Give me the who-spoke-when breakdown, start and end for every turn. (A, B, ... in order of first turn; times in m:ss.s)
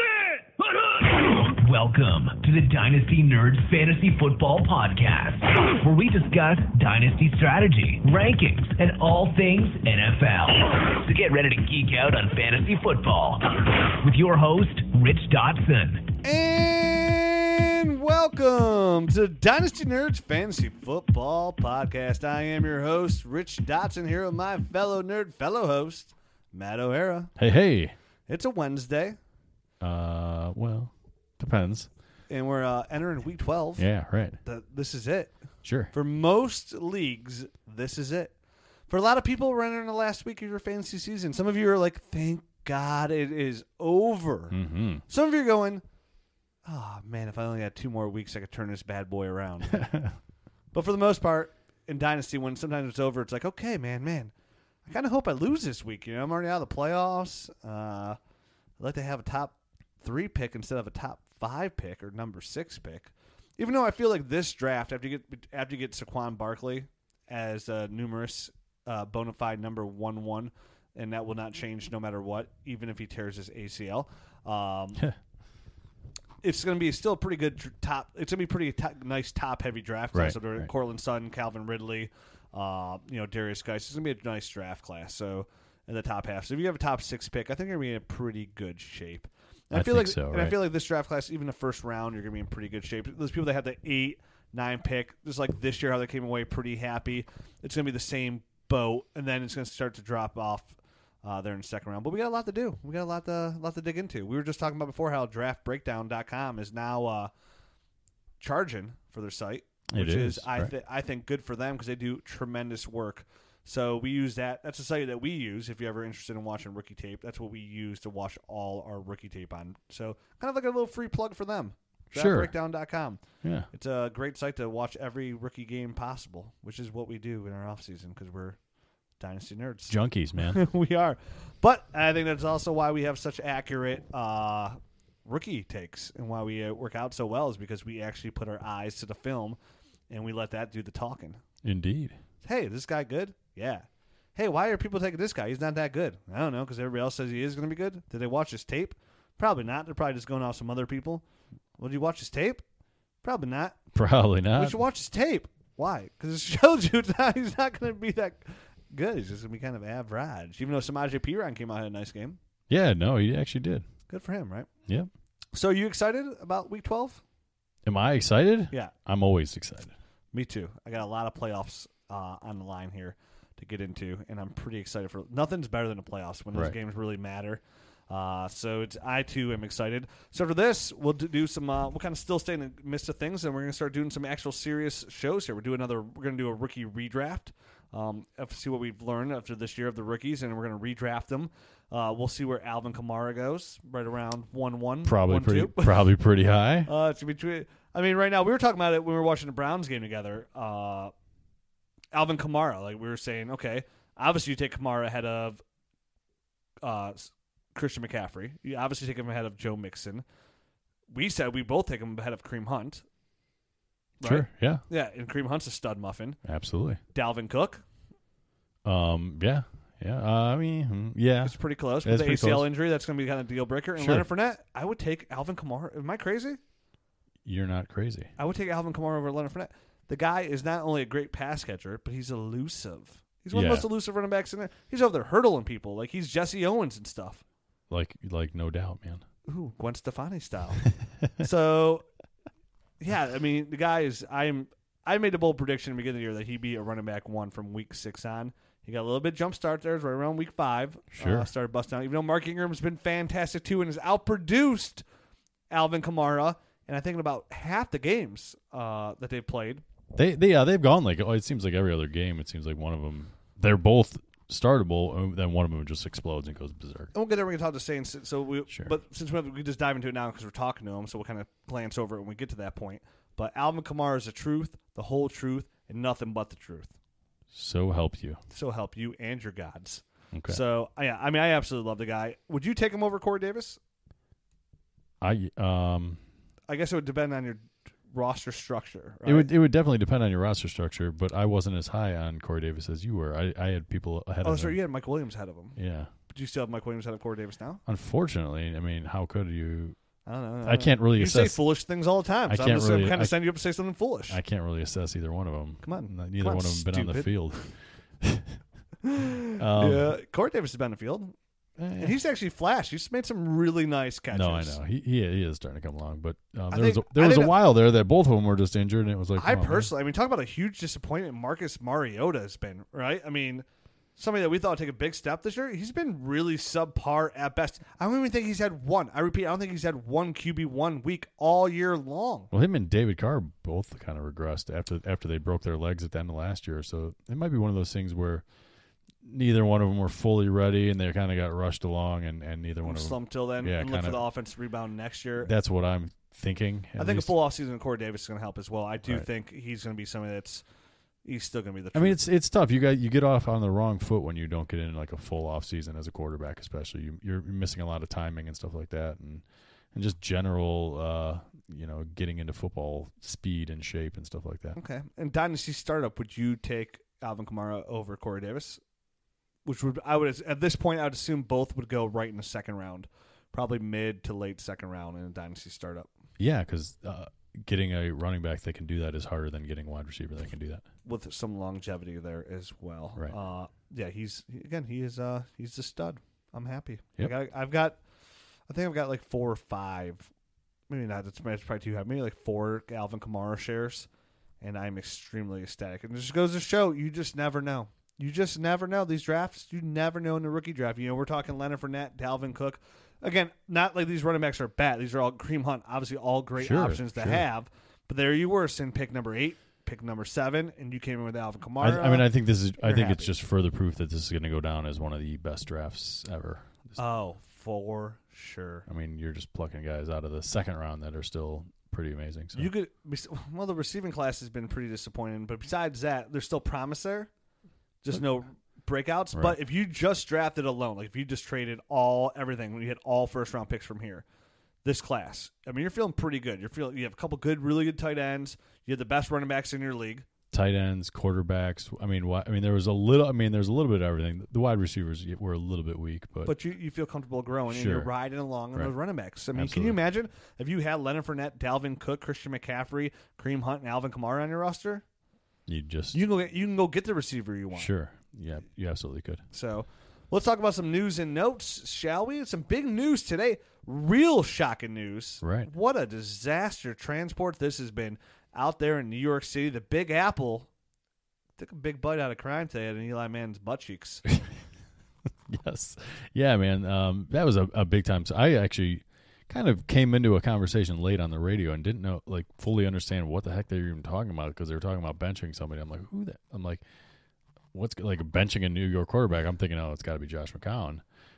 0:00.8-0:16.1 A
0:16.2-0:27.3 B
0:27.4-0:27.9 C
0:28.3-0:29.2 B
0:29.8-0:31.9 C
0:32.3-0:33.9 B
0:33.8-0:34.4 C
0:34.4-0:35.4 B
0:35.6-0:35.9 C
0:35.9-0:38.3 B
0:38.9-0:45.8 B
0:44.5-0:45.0 C
0:46.6-0:50.0 B
0:49.7-0:50.1 C
0:50.7-0:54.3 B
0:54.8-0:58.2 B
0:58.8-1:15.0 B
1:16.4-1:47.3 B
1:20.1-1:20.7 C
1:29.7-1:30.6 C
1:48.4-2:08.6 B
1:49.9-1:50.7 C
2:02.1-2:02.5 C
2:03.4-2:03.7 C
2:09.2-2:19.6 B
2:09.9-2:10.6 C
2:20.1-2:21.4 B
2:21.6-2:22.2 C
2:22.4-2:31.2 B
2:31.8-2:32.6 B
2:33.2-2:33.8 B
2:33.9-2:34.8 C
2:34.5-2:42.4 B
2:42.7-2:43.8 C
2:44.1-2:44.7 B
2:45.5-2:47.2 B
2:47.8-2:49.9 C
2:50.3-3:16.1 B
3:15.0-3:16.9 C
3:16.8-3:21.1 B
3:22.1-3:25.6 B
3:26.8-3:30.2 B
3:31.1-3:33.0 B
3:34.2-3:36.4 B
3:34.2-3:34.8 C
3:36.4-3:37.0 C
3:37.1-3:37.8 B
3:38.8-3:42.7 C
3:41.4-3:46.6 B
3:44.0-3:44.2 C
3:47.4-3:48.3 C
3:48.4-3:57.4 B
3:53.5-3:53.9 C
3:57.9-3:59.2 C
3:59.5-4:02.0 B
4:03.0-4:15.0 B
4:11.1-4:11.5 C
4:15.7-4:19.8 B
4:20.1-4:27.1 C
4:27.1-4:36.9 B
4:37.5-4:38.4 C
4:38.5-4:43.8 B
4:40.3-4:40.6 C
4:45.2-4:46.2 C
4:46.7-4:49.5 B
4:49.2-4:54.8 C
4:54.4-4:55.8 B
4:55.8-4:56.1 C
4:56.3-4:57.8 B
4:57.8-5:00.0 C
5:00.2-5:04.4 B
5:00.6-5:01.6 C
5:02.5-5:03.4 C
5:04.3-5:08.6 C
5:05.8-5:07.7 B
5:09.0-5:11.4 B
5:09.6-5:10.1 C
5:11.8-5:12.2 C
5:12.0-5:14.8 B
5:14.3-5:19.9 C
5:16.7-5:17.5 B
5:19.4-5:32.5 B
5:32.5-5:38.4 C
5:39.2-5:44.2 C
5:42.8-5:45.5 B
5:45.4-5:47.3 C
5:47.0-5:50.6 B
5:51.2-5:52.2 B
5:51.9-6:04.8 C
6:04.7-6:08.8 B
6:09.6-6:16.1 B
6:16.4-6:20.8 C
6:21.0-6:28.0 B
6:28.7-6:30.3 B
6:30.9-6:34.1 B
6:34.6-6:53.3 B
6:46.6-6:47.4 C
6:51.8-6:57.0 C
6:57.0-6:58.8 B
6:58.9-7:02.7 C
7:02.5-7:07.3 B
7:08.0-7:14.2 B
7:14.8-7:20.2 B
7:20.5-7:26.5 C
7:26.4-7:35.0 B
7:27.7-7:28.1 C
7:29.5-7:30.0 C
7:35.7-7:36.2 C
7:36.1-7:37.9 B
7:37.7-7:39.4 C
7:39.5-7:50.7 B
7:45.4-7:45.7 C
7:51.6-7:54.2 B
7:55.5-8:06.8 C
8:07.7-8:11.0 C